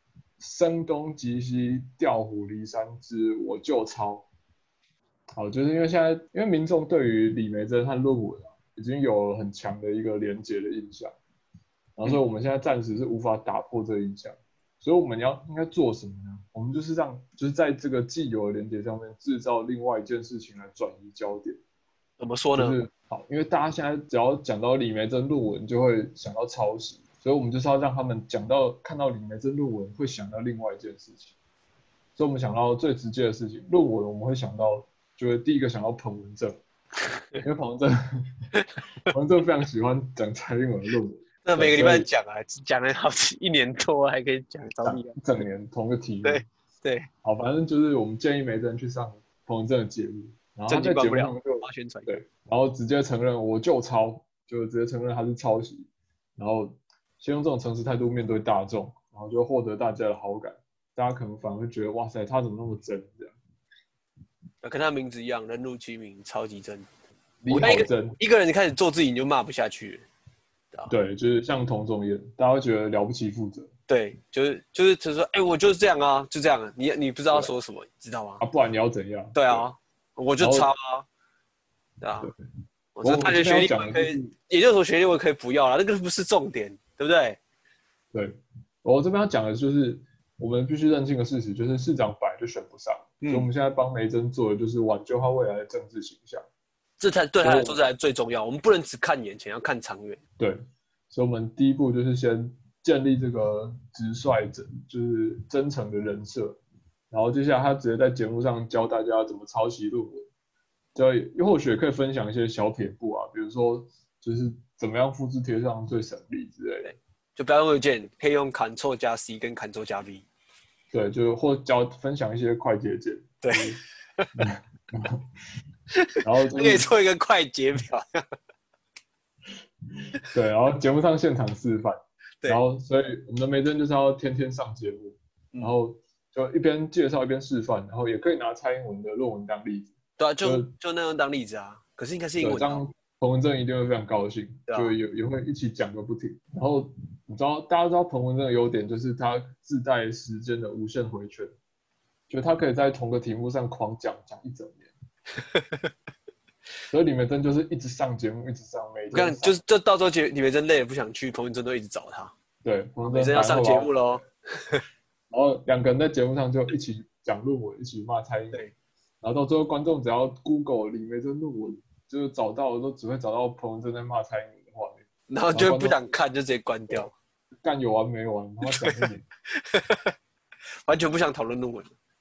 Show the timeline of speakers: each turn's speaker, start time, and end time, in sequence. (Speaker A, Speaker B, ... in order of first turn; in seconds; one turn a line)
Speaker A: 0.4-4.3
Speaker A: 5.3-11.1
Speaker A: 11.9-21.6
Speaker B: 22.2-22.8
Speaker A: 22.5-31.3
Speaker A: 32.1-36.5
Speaker A: 37.4-38.0
Speaker A: 39.1-42.1
Speaker B: 41.4-45.2
Speaker A: 44.8-46.4
Speaker B: 46.2-47.1
Speaker A: 47.2-63.3
Speaker B: 50.7-52.1
Speaker B: 64.6-66.9
Speaker A: 67.4-68.2
Speaker B: 67.5-70.0
Speaker A: 70.9-73.7
Speaker B: 73.9-78.4
Speaker A: 77.3-77.5
Speaker A: 78.4-79.7
Speaker B: 79.3-81.1
Speaker A: 80.4-80.7
Speaker B: 82.0-82.3
Speaker B: 83.0-87.4
Speaker A: 83.0-84.3
Speaker A: 88.1-96.5
Speaker B: 93.2-93.5
Speaker B: 97.0-100.2
Speaker A: 97.4-97.8
Speaker A: 101.1-106.6
Speaker A: 107.1-110.2
Speaker A: 110.9-116.9
Speaker B: 116.8-120.2
Speaker A: 120.9-123.8
Speaker B: 123.4-124.2
Speaker A: 124.3-125.2
Speaker B: 125.9-128.1
Speaker A: 126.2-126.9
Speaker A: 130.3-140.7
Speaker B: 140.2-142.9
Speaker A: 142.4-151.5
Speaker B: 144.7-144.9
Speaker A: 152.3-154.9
Speaker B: 155.5-155.8
Speaker A: 156.9-159.6
Speaker B: 159.1-162.3
Speaker A: 162.6-164.0
Speaker B: 163.0-164.8
Speaker A: 165.3-168.6
Speaker A: 169.2-176.0
Speaker B: 175.3-177.1
Speaker A: 177.6-179.2
Speaker B: 178.6-180.1
Speaker B: 180.9-181.9